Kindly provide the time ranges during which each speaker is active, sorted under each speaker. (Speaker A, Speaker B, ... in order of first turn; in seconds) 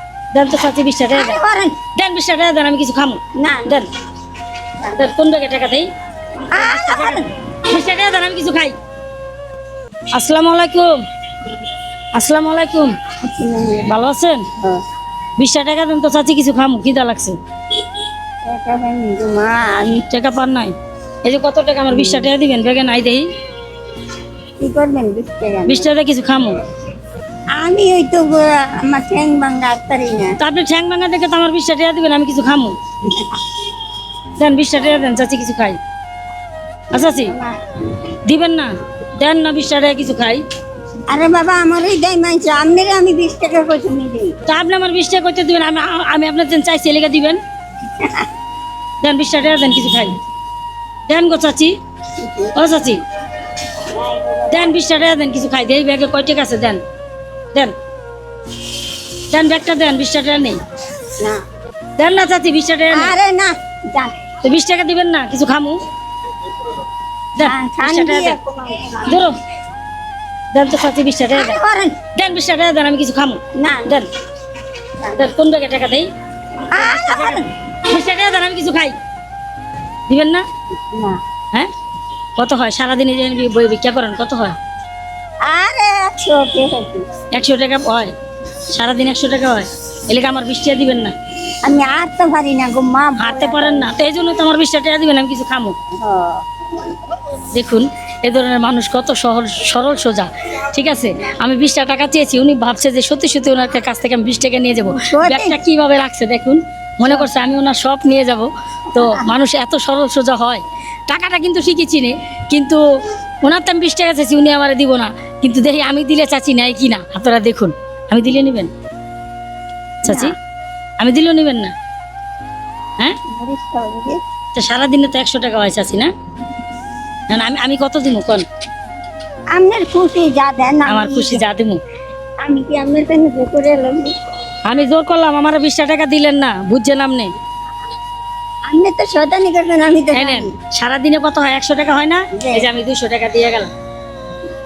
Speaker A: 0.3-1.4, 2.0-3.9, 4.9-5.9, 6.5-8.8, 10.1-10.9, 12.1-12.9, 13.9-14.4, 15.4-17.4, 20.1-23.3, 25.7-26.6, 30.4-32.8, 34.4-35.8, 36.9-37.3, 38.3-40.4, 44.5-47.4, 49.0-50.2, 51.1-51.7, 52.5-53.0, 54.5-56.8, 59.1-60.6, 62.0-63.1, 64.4-65.8, 67.4-68.4, 69.1-69.4, 70.5-71.6, 72.2-74.1, 75.1-76.1, 76.7-79.0, 80.1-80.5, 82.4-84.6, 87.3-88.1, 88.7-91.2, 93.2-95.8, 97.5-112.8, 113.4-118.7, 120.0-120.3, 121.0-121.7, 124.6-126.1, 127.3-128.5, 130.9-131.8, 134.7-137.3, 140.1-143.7
Speaker B: 1.1-1.8, 3.4-3.8, 6.5-7.3, 13.2-13.9, 18.4-20.1, 21.9-22.3, 24.6-25.9, 27.6-30.4, 36.9-37.5, 41.1-44.4, 52.2-52.5, 53.9-54.8, 62.9-64.1, 67.4-69.2, 71.3-72.0, 73.6-74.0, 76.7-77.5, 80.9-81.2, 85.5-87.1, 91.7-93.9, 96.0-96.4, 104.9-105.6, 108.9-109.3, 120.0-120.3, 123.3-124.2, 129.6-131.4, 132.4-134.2, 138.7-140.5, 142.3-142.7